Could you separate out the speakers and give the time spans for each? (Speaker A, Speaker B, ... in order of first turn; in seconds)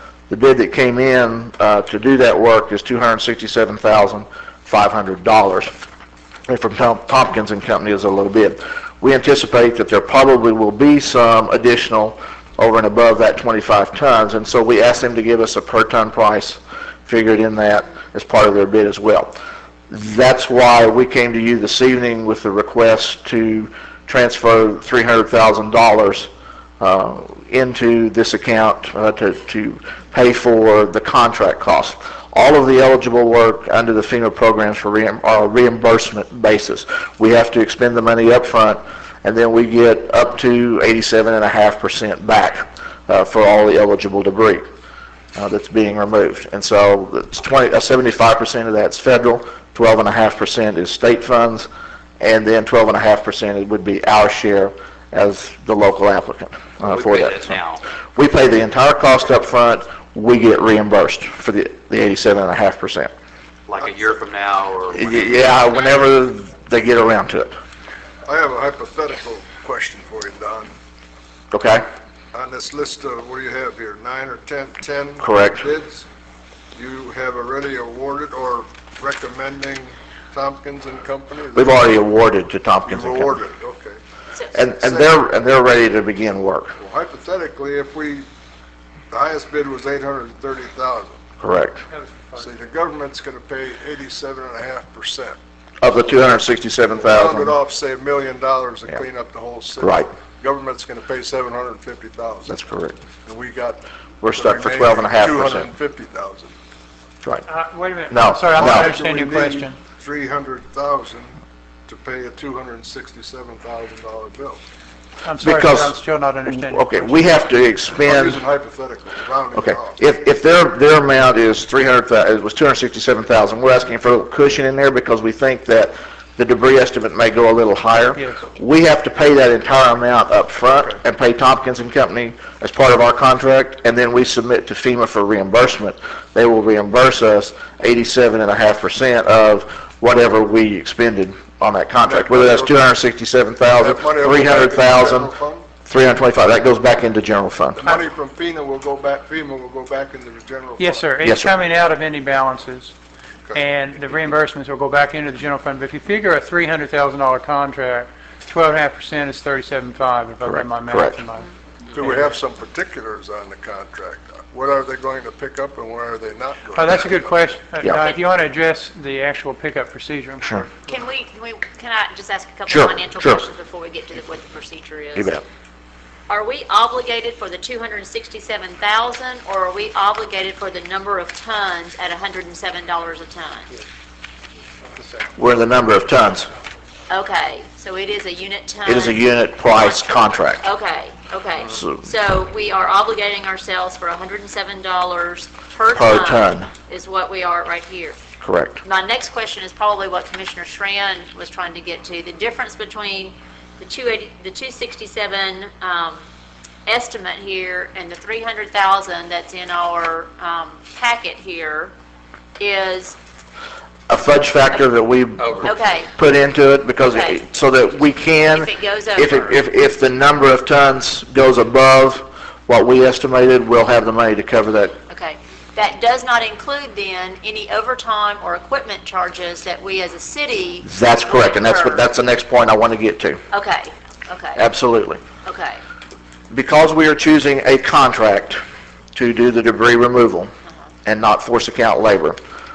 Speaker A: 0.3-5.7, 6.5-19.4, 19.9-26.3, 26.8-44.6, 45.4-51.7, 52.2-57.6, 58.1-63.1, 65.0-67.5, 71.5-71.8, 75.2-75.7, 81.5-83.4, 84.5-86.7, 91.4-91.8, 95.8-97.5, 99.8-100.1, 102.5-103.0, 104.2-105.7, 108.1-109.0, 115.4-118.4, 119.5-145.3, 145.9-147.8, 151.2-151.6, 160.4-161.2, 170.4-170.7, 172.7-173.4, 175.2-175.4, 185.4-186.5, 188.9-190.7, 191.7-192.0, 195.9-196.7, 198.4-198.8, 214.1-225.0, 230.8-233.4, 234.6-235.2, 236.5-238.6, 239.2-240.5, 241.1-242.4
Speaker B: 56.9-57.8, 63.7-65.5, 215.4-215.7
Speaker C: 68.2-70.7, 72.3-76.0, 76.8-81.8, 82.9-84.0, 84.8-85.1, 86.8-88.3, 89.1-91.2, 92.4-95.4, 97.0-102.5, 103.3-106.5, 108.5-111.3, 111.9-114.6, 118.0-120.0, 142.0-142.8, 143.7-145.7, 147.8-151.1, 153.4-153.7, 161.9-167.3
Speaker D: 91.9-92.5, 107.5-109.8, 115.2-117.3, 150.8-152.9, 153.6-161.5, 166.8-170.5
Speaker E: 170.8-175.4, 176.3-183.7, 187.1-198.2, 198.8-206.2, 206.9-211.9, 212.6-213.2, 215.6-216.1, 217.1-217.4, 218.5-219.5, 225.1-232.0, 233.5-234.6, 235.4-235.8